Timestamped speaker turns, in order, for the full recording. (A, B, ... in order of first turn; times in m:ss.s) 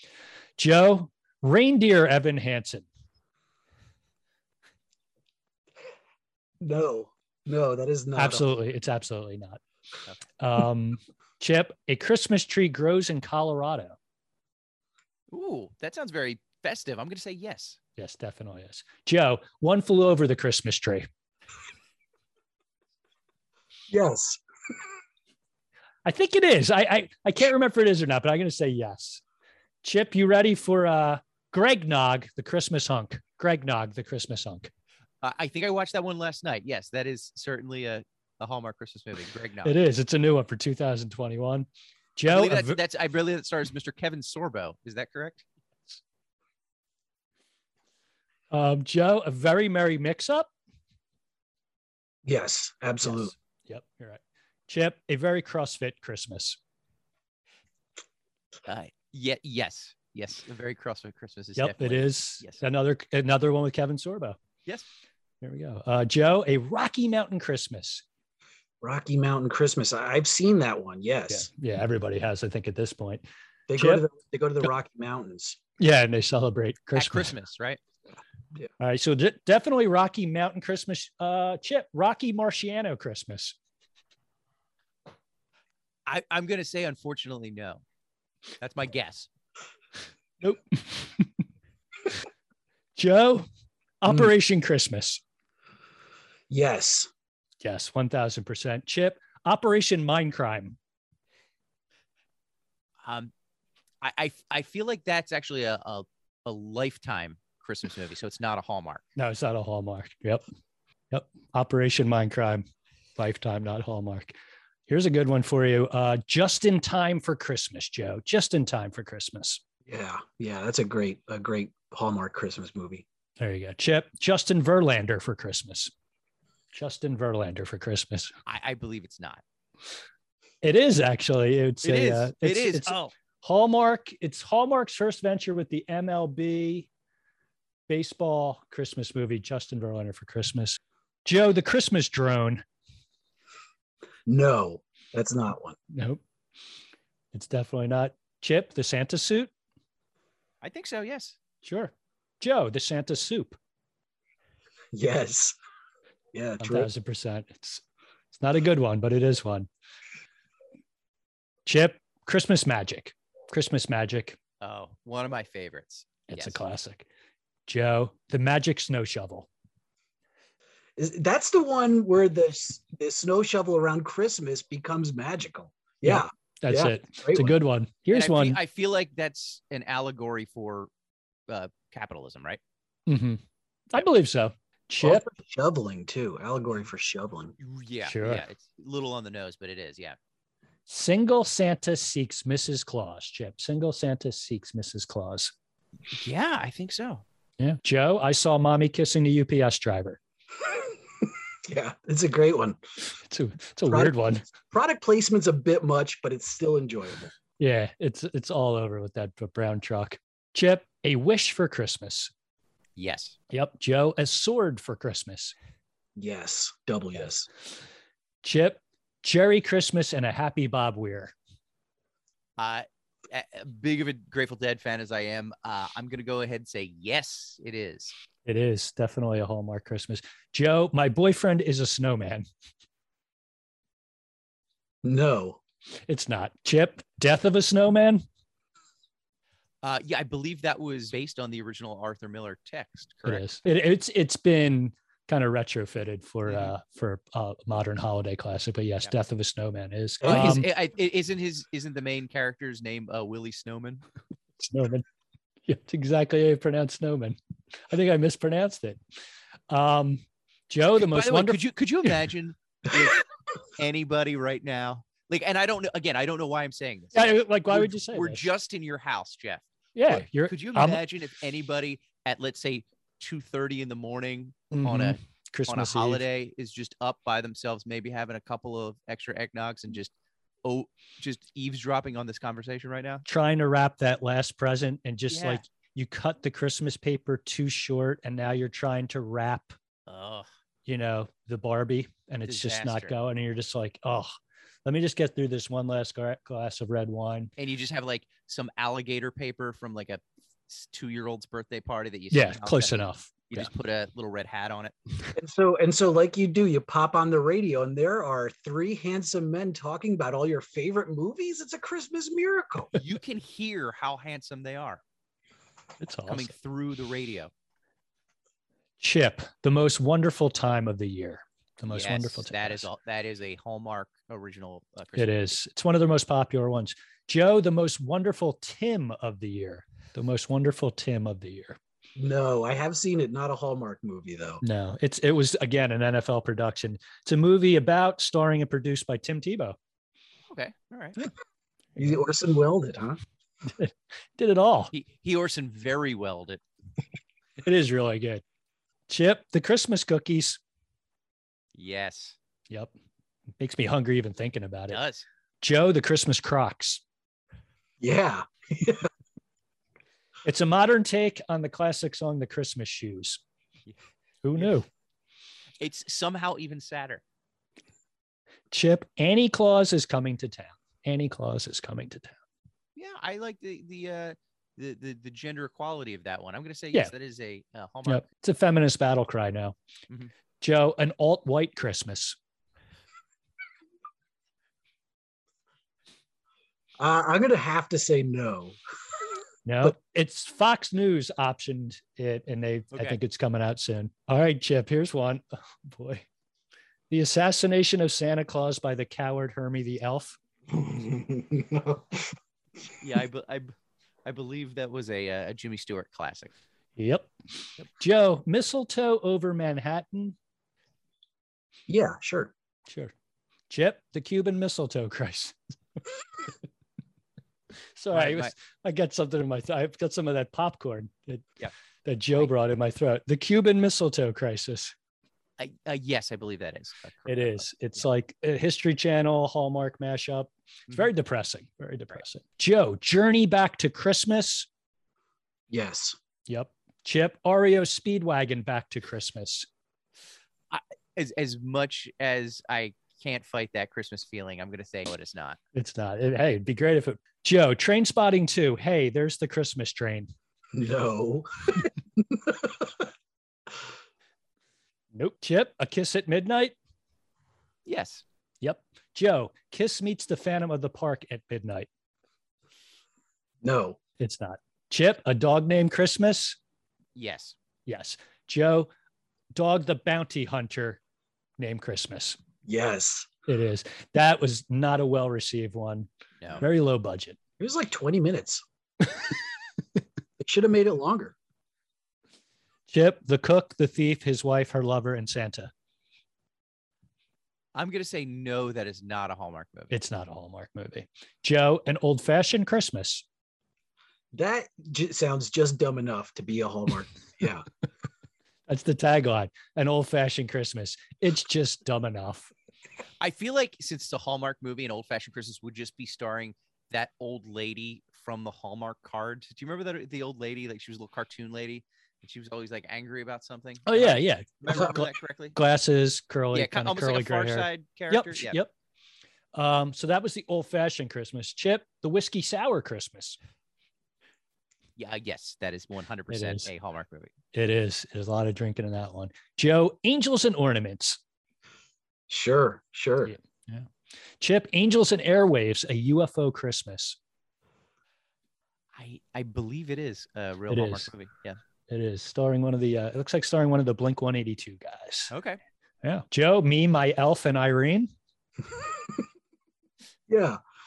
0:00.6-0:02.8 A
0:06.6-0:08.5 B
0:08.2-0:09.6 A
0:10.4-0:14.0 A
0:15.3-0:17.8 C
0:18.0-0:21.1 A
0:23.9-0:24.4 B
0:26.0-0:29.2 A
0:29.8-0:34.7 A
0:35.2-0:39.8 C
0:39.6-0:42.8 A
0:42.3-0:45.4 C
0:48.5-0:50.5 A
0:52.2-0:53.3 B
0:53.0-0:56.6 A
0:58.6-1:02.6 C
1:01.6-1:04.4 A
1:05.4-1:08.0 A
1:08.8-1:11.5 B
1:11.3-1:13.2 A
1:13.7-1:15.6 B
1:13.8-1:14.0 A
1:15.8-1:17.3 A
1:16.9-1:17.8 C
1:18.8-1:23.6 A
1:26.0-1:27.8 C
1:28.6-1:29.3 C
1:30.4-1:31.4 A
1:33.0-1:33.5 A
1:34.0-1:35.2 A
1:36.5-1:37.1 B
1:37.6-1:40.8 A
1:43.0-1:43.3 C
1:44.0-1:49.0 C
1:49.2-1:50.4 A
1:51.1-1:52.6 A
1:53.2-1:54.4 A
1:54.9-1:59.6 A
1:59.8-2:03.0 B
2:03.4-2:05.9 A
2:06.7-2:08.4 A
2:08.4-2:09.4 C
2:10.6-2:16.9 A
2:11.8-2:13.0 C
2:17.9-2:22.6 A
2:24.3-2:25.8 B
2:25.9-2:26.2 A
2:27.3-2:29.5 A
2:30.6-2:31.4 C
2:31.6-2:33.6 A
2:34.9-2:35.6 B
2:36.3-2:36.9 B
2:36.6-2:39.7 A
2:41.6-2:44.4 A
2:44.6-2:46.6 C
2:46.3-2:47.0 A
2:47.7-2:49.5 A
2:51.0-2:57.5 B
2:56.0-2:58.6 A
2:58.1-3:00.9 C
3:01.5-3:02.6 C
3:03.1-3:03.4 A
3:03.9-3:05.2 A
3:05.0-3:07.5 B
3:07.6-3:10.2 C
3:08.0-3:08.4 A
3:10.9-3:15.5 A
3:16.1-3:17.2 C
3:17.6-3:20.2 A
3:21.6-3:22.8 B
3:23.2-3:24.4 A
3:23.8-3:27.3 B
3:27.6-3:32.3 A
3:33.0-3:33.4 C
3:33.5-3:35.5 A
3:36.2-3:37.5 B
3:38.4-3:41.3 A
3:42.6-3:48.1 C
3:48.4-3:52.4 A
3:55.0-3:55.6 B
3:56.1-3:58.2 A
3:59.8-4:03.5 C
4:03.2-4:10.6 A
4:06.5-4:06.7 C
4:10.2-4:10.6 B
4:10.2-4:14.0 C
4:14.6-4:15.0 A
4:15.7-4:17.4 A
4:17.9-4:19.0 A
4:19.7-4:21.6 A
4:21.0-4:35.2 C
4:27.1-4:28.5 A
4:29.9-4:31.0 A
4:34.7-4:36.2 A
4:35.7-4:40.1 C
4:40.6-4:43.2 C
4:43.2-4:49.8 A
4:45.3-4:45.6 C
4:50.1-4:50.5 C
4:50.8-4:54.3 A
4:52.5-4:53.1 C
4:54.8-4:57.5 A
4:57.6-5:05.3 C
5:02.3-5:03.7 A
5:05.3-5:12.9 B
5:13.0-5:15.0 C
5:16.0-5:16.5 A
5:16.3-5:17.5 C
5:19.0-5:22.9 A
5:21.9-5:25.5 C
5:25.2-5:31.8 A
5:32.2-5:34.6 B
5:34.6-5:39.8 A
5:40.5-5:41.2 C
5:42.0-5:43.2 B
5:43.7-5:44.9 A
5:44.9-5:46.6 C
5:47.6-5:48.4 A
5:49.1-5:50.6 A
5:51.7-5:52.4 C
5:53.6-5:55.0 A
5:54.9-5:55.2 C
5:55.6-5:57.0 A
5:58.0-5:59.1 B
6:00.4-6:03.4 A
6:04.4-6:04.9 A
6:05.8-6:07.2 C
6:08.7-6:12.4 A
6:13.0-6:18.2 C
6:18.0-6:19.8 A
6:20.6-6:22.4 A
6:27.0-6:28.8 B
6:29.6-6:36.2 A
6:32.9-6:33.2 C
6:37.1-6:40.4 A
6:40.7-6:42.3 B
6:43.0-6:46.5 C
6:47.0-6:47.3 A
6:48.0-6:50.4 A
6:51.9-6:52.5 B
6:53.7-6:55.6 A
6:58.0-7:01.5 A
6:58.1-6:58.5 C
7:02.0-7:04.9 A
7:05.6-7:07.7 C
7:07.3-7:14.7 A
7:15.7-7:16.2 B
7:16.5-7:19.7 A
7:20.7-7:25.6 C
7:25.7-7:30.3 A
7:30.7-7:33.1 B
7:35.1-7:36.7 A
7:37.8-7:38.2 C
7:38.6-7:41.9 A
7:43.6-7:44.0 B
7:44.2-7:46.6 A
7:47.2-7:47.6 C
7:47.9-7:48.9 A
7:49.5-7:51.0 A
7:51.6-7:52.4 A
7:52.6-7:53.3 B
7:53.5-7:56.1 A
7:56.6-7:57.4 A
7:57.6-7:58.6 B
8:00.4-8:01.3 B
8:02.9-8:05.7 A
8:07.7-8:09.9 C
8:09.9-8:13.2 A
8:14.3-8:17.6 B
8:18.7-8:22.5 A
8:23.2-8:35.6 C
8:33.8-8:38.7 A
8:36.5-8:38.6 C
8:39.5-8:43.4 A
8:45.0-8:47.3 C
8:46.3-8:46.7 A
8:47.5-8:51.2 A
8:52.3-8:53.3 B
8:53.2-8:53.9 A
8:54.4-8:57.2 A
8:58.9-9:01.6 C
9:00.7-9:01.1 A
9:01.9-9:05.3 A
9:05.3-9:05.6 C
9:06.0-9:08.1 A
9:10.3-9:10.6 B